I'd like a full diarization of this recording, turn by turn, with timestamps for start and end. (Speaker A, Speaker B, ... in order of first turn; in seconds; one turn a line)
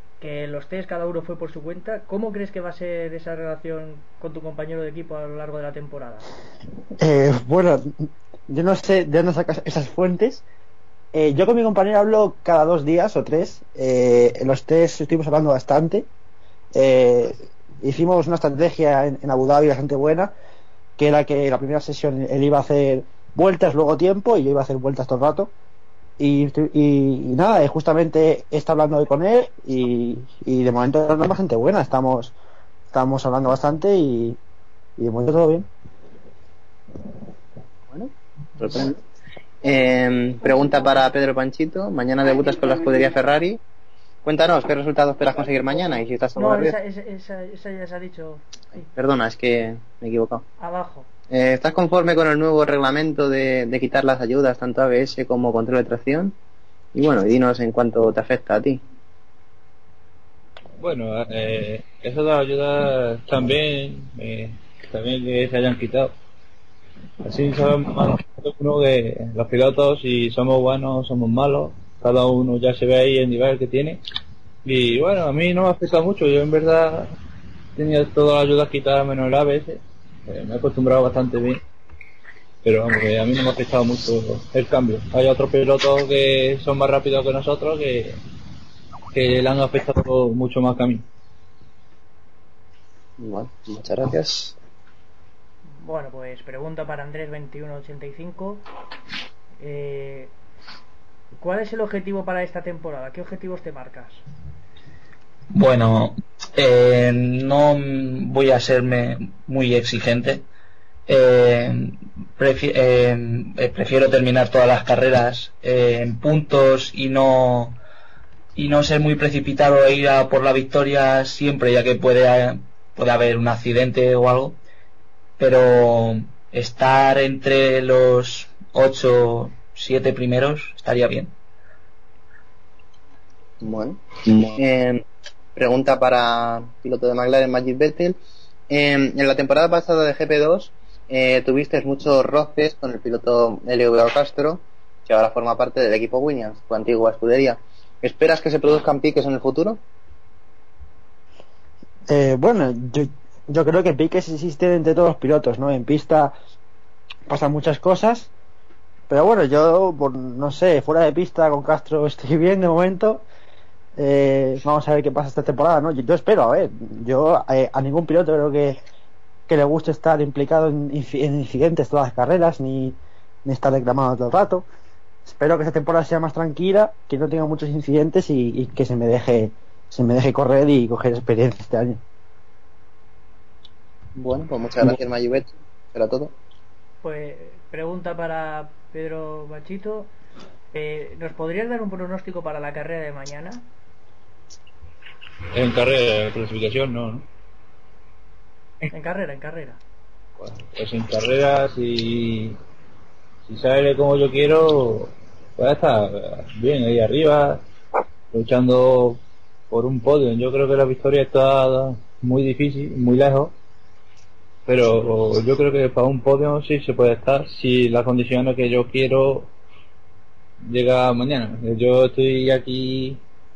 Speaker A: 0.2-6.3
Speaker B: 7.0-7.9
Speaker B: 8.5-10.4
Speaker B: 11.1-16.1
Speaker B: 16.7-20.3
Speaker B: 21.0-25.5
Speaker B: 26.2-32.3
Speaker B: 32.9-34.4
Speaker B: 35.0-35.7
Speaker C: 37.9-39.0
Speaker C: 39.6-43.6
Speaker C: 44.2-46.8
Speaker A: 46.4-48.4
Speaker C: 48.8-50.4
Speaker A: 50.6-51.1
Speaker C: 51.3-56.4
Speaker C: 56.9-58.8
Speaker D: 60.8-66.1
Speaker D: 67.2-74.0
Speaker D: 74.6-77.1
Speaker D: 77.8-81.6
Speaker D: 82.6-88.2
Speaker D: 89.1-91.0
Speaker C: 93.2-94.5
Speaker A: 95.8-98.6
Speaker A: 99.6-100.3
Speaker A: 101.4-104.2
Speaker E: 105.5-110.5
Speaker E: 111.1-117.8
Speaker E: 118.5-124.6
Speaker E: 125.4-131.3
Speaker C: 133.6-135.0
Speaker C: 135.5-138.2
Speaker C: 138.7-149.8
Speaker B: 152.1-156.3
Speaker B: 157.3-158.3
Speaker B: 159.1-163.2
Speaker B: 163.9-168.8
Speaker B: 169.5-174.7
Speaker B: 175.2-182.0
Speaker C: 184.2-186.3
Speaker A: 187.0-190.1
Speaker A: 190.7-193.7
Speaker D: 195.5-197.2
Speaker A: 198.9-199.8
Speaker D: 200.4-202.6
Speaker D: 203.4-207.6
Speaker D: 208.3-213.5
Speaker D: 214.7-219.5
Speaker D: 220.7-223.2